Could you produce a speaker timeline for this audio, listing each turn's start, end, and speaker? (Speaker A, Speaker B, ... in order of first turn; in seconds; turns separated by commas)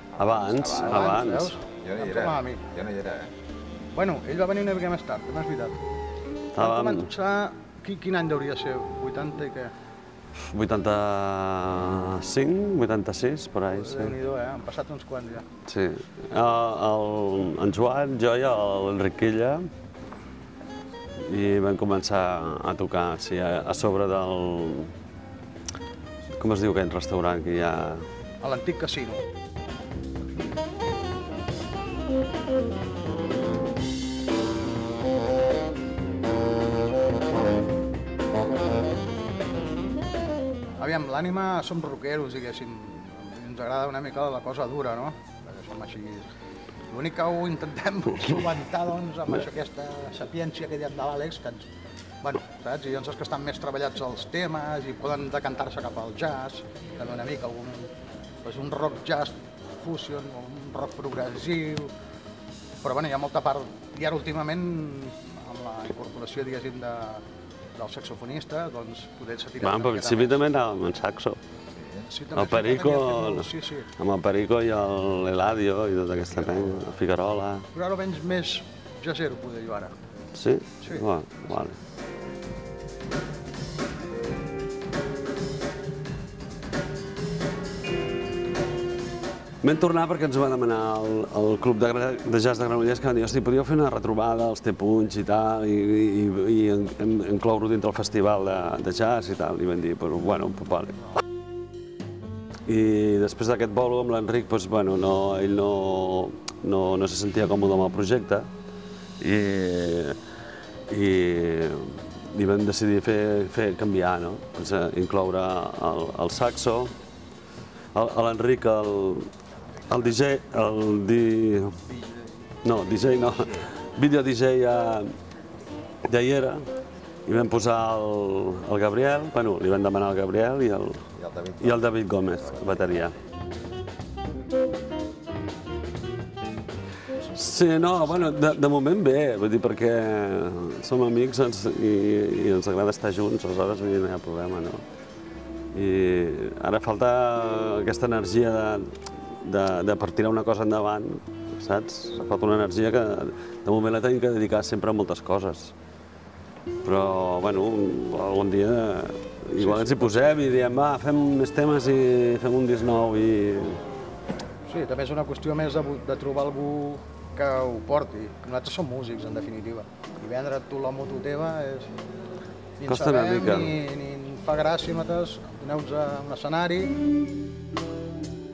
Speaker A: 0.2-1.1, Speaker B: 0.2-1.6, Speaker C: 0.6-2.6, Speaker A: 1.7-3.3, Speaker C: 3.9-5.8, Speaker B: 6.5-7.1, Speaker C: 6.6-9.7, Speaker B: 10.4-14.2, Speaker C: 13.7-15.4, Speaker B: 15.6-19.7, Speaker B: 21.2-24.9, Speaker B: 26.4-28.1, Speaker C: 28.4-29.2, Speaker C: 40.8-46.3, Speaker C: 46.9-51.7, Speaker C: 52.2-57.9, Speaker C: 58.4-61.9, Speaker C: 62.8-67.2, Speaker C: 67.7-70.4, Speaker B: 69.6-71.4, Speaker A: 71.7-72.1, Speaker C: 72.1-73.9, Speaker B: 72.3-77.7, Speaker C: 77.7-79.9, Speaker B: 80.3-81.8, Speaker C: 80.8-81.1, Speaker B: 89.6-101.2, Speaker B: 102.7-108.5, Speaker B: 109.2-110.2, Speaker B: 110.9-116.9, Speaker B: 117.9-119.3, Speaker A: 119.6-120.2, Speaker B: 119.9-121.8, Speaker B: 122.6-125.1, Speaker A: 123.3-123.7, Speaker B: 126.0-126.6, Speaker B: 127.2-131.1, Speaker A: 131.2-133.1, Speaker B: 131.6-133.2, Speaker A: 137.2-138.0, Speaker B: 137.3-144.8, Speaker B: 145.7-155.7, Speaker B: 156.8-163.8, Speaker C: 159.6-160.4, Speaker C: 164.7-171.9, Speaker C: 172.8-176.9, Speaker B: 172.9-173.7